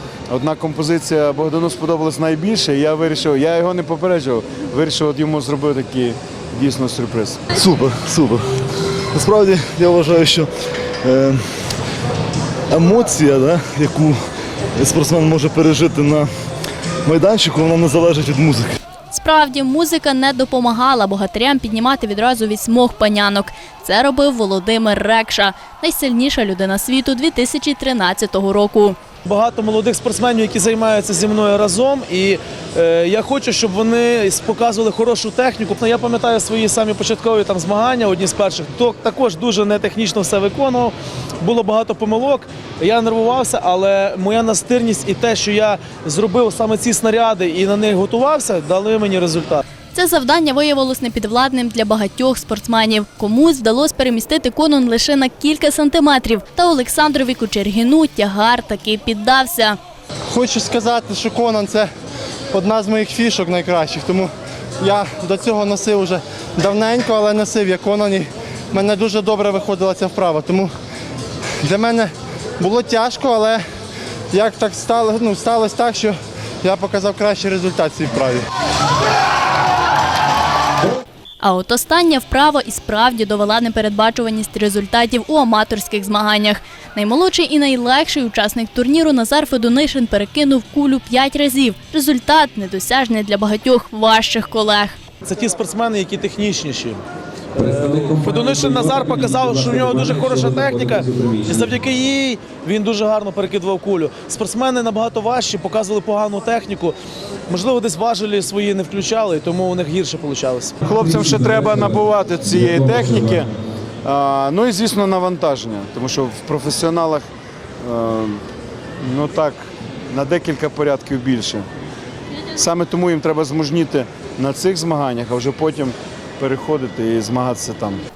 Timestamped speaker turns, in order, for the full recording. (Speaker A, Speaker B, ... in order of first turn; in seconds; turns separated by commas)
Speaker A: 0.3-7.5, Speaker B: 7.5-8.5, Speaker B: 9.1-10.5, Speaker B: 11.0-11.7, Speaker B: 12.7-14.2, Speaker B: 14.8-16.3, Speaker B: 17.1-18.8, Speaker C: 19.1-29.0, Speaker D: 29.2-49.6, Speaker C: 49.9-59.8, Speaker E: 60.3-61.9, Speaker E: 62.5-70.7, Speaker E: 71.6-73.6, Speaker E: 74.3-78.4, Speaker C: 81.4-95.0, Speaker D: 95.2-97.0, Speaker D: 97.6-107.0, Speaker D: 107.5-110.8, Speaker A: 110.8-113.5, Speaker A: 114.0-117.2, Speaker A: 117.8-118.4, Speaker A: 119.0-121.6, Speaker A: 122.5-128.0